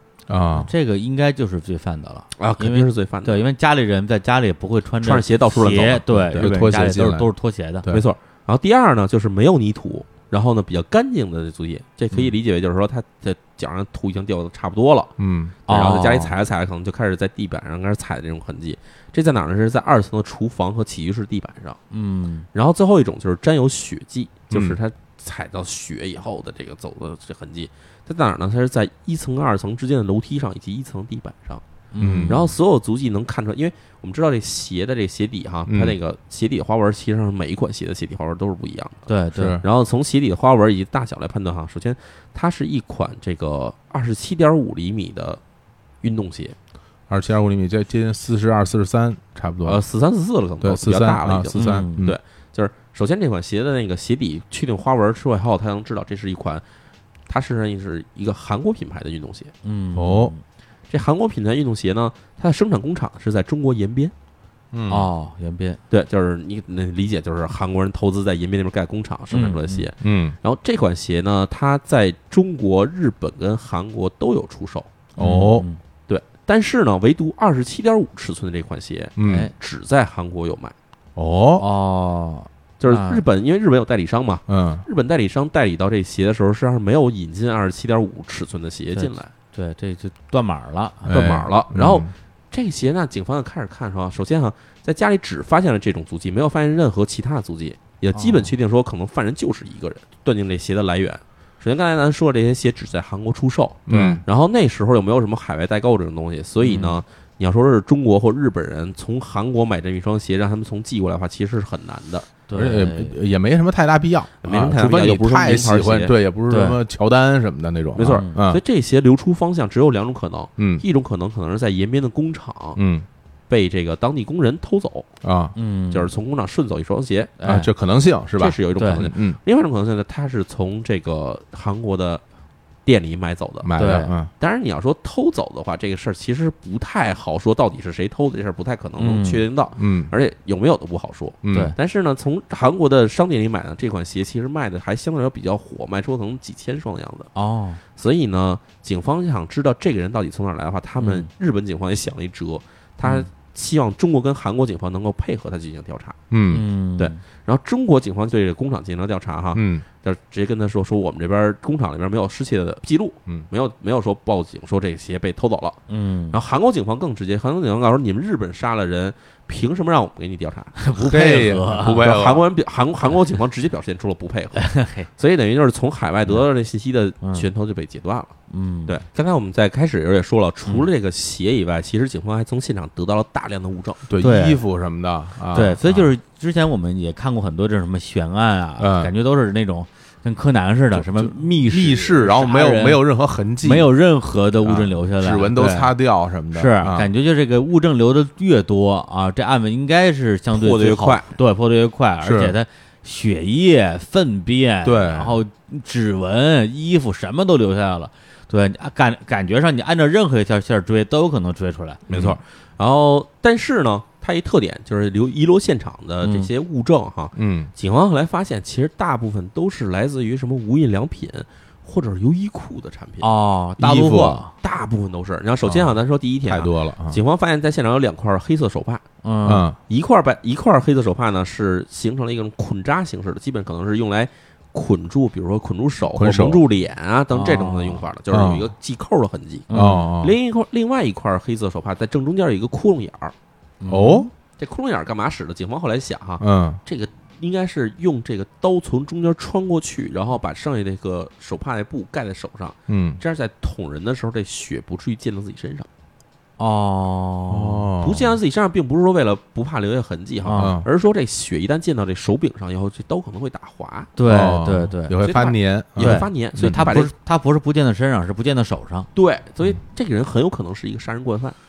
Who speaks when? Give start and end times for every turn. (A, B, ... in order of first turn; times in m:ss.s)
0:00.3-0:00.7 A
0:00.5-0:07.9 B
0:02.4-0:03.4 C
0:05.0-0:06.4 C
0:06.3-0:07.3 A
0:07.9-0:15.1 C
0:15.2-0:15.6 A
0:15.7-0:16.3 B
0:15.7-0:21.8 C
0:21.9-0:22.5 B
0:22.5-0:31.6 C
0:24.5-0:24.8 A
0:31.9-0:32.5 B
0:32.0-0:32.4 A
0:32.3-0:39.1 C
0:35.7-0:36.0 A
0:39.1-0:39.6 B
0:39.3-0:39.6 A
0:39.6-0:45.4 C
0:46.0-0:46.5 C
0:47.1-0:49.8 A
0:49.6-0:56.6 C
0:50.6-0:52.2 A
0:51.5-0:52.0 B
0:57.3-0:59.5 C
0:59.6-1:00.4 B
0:59.9-1:00.3 A
1:00.9-1:04.1 C
1:04.7-1:05.1 A
1:04.9-1:05.8 B
1:05.9-1:14.9 C
1:09.3-1:09.9 B
1:10.0-1:10.4 A
1:15.2-1:15.6 A
1:15.2-1:15.8 B
1:16.1-1:20.7 C
1:19.2-1:19.5 A
1:19.2-1:19.5 B
1:21.2-1:21.6 A
1:21.6-1:23.2 B
1:22.8-1:29.3 C
1:24.5-1:24.8 A
1:28.9-1:31.3 B
1:31.0-1:32.1 A
1:31.1-1:52.3 C
1:38.1-1:38.5 B
1:43.9-1:44.2 A
1:43.9-1:44.2 B
1:46.6-1:47.0 B
1:52.5-1:53.2 B
1:52.5-1:58.6 A
1:54.4-1:56.1 C
1:56.5-1:56.8 B
1:58.0-2:02.8 C
1:58.0-1:58.3 B
2:00.6-2:00.8 A
2:02.8-2:03.0 A
2:03.5-2:05.1 C
2:05.2-2:05.5 A
2:05.6-2:06.1 B
2:05.9-2:07.3 C
2:07.4-2:07.7 B
2:07.4-2:09.4 A
2:08.4-2:12.2 C
2:08.8-2:09.1 B
2:12.8-2:13.7 C
2:13.6-2:14.3 A
2:13.8-2:14.1 B
2:14.4-2:27.3 C
2:19.0-2:19.4 B
2:19.8-2:20.1 A
2:21.4-2:21.7 A
2:27.3-2:27.8 B
2:28.0-2:36.2 C
2:31.0-2:31.3 B
2:36.3-2:36.6 A
2:36.5-2:37.2 B
2:37.0-2:45.8 C
2:39.5-2:39.8 A
2:45.9-2:46.4 B
2:46.3-2:50.8 C
2:50.8-2:52.2 B
2:51.0-2:52.4 A
2:51.9-2:58.3 C
2:54.6-2:55.1 B
2:57.2-2:57.5 B
2:58.5-2:59.0 B
2:58.8-3:04.0 C
3:04.1-3:06.1 A
3:04.2-3:04.6 B
3:05.5-3:13.0 B
3:08.8-3:09.1 A
3:10.9-3:13.9 A
3:13.6-3:15.9 B
3:14.6-3:17.1 A
3:16.5-3:32.1 B
3:20.5-3:21.3 C
3:22.2-3:22.6 A
3:24.8-3:25.4 A
3:32.1-3:32.4 A
3:32.1-3:43.3 C
3:36.2-3:36.5 B
3:37.3-3:37.7 A
3:43.2-3:44.5 B
3:43.8-3:44.4 A
3:44.6-3:49.0 C
3:45.6-3:47.2 A
3:49.2-3:49.7 B
3:49.4-3:49.8 A
3:49.9-4:03.3 C
3:56.1-3:56.6 A
3:57.3-3:58.0 B
3:58.3-3:58.7 A
3:59.7-4:00.1 B
3:59.7-4:00.4 A
4:03.8-4:04.3 B
4:03.9-4:04.3 A
4:04.6-4:15.9 C
4:06.4-4:06.8 A
4:12.9-4:13.2 A
4:16.6-4:17.9 B
4:17.5-4:18.4 A
4:18.0-4:24.1 C
4:20.4-4:20.8 B
4:20.5-4:20.9 A
4:24.2-4:25.2 B
4:24.2-4:26.9 A
4:25.2-4:27.1 C
4:26.0-4:29.1 B
4:29.1-4:31.6 C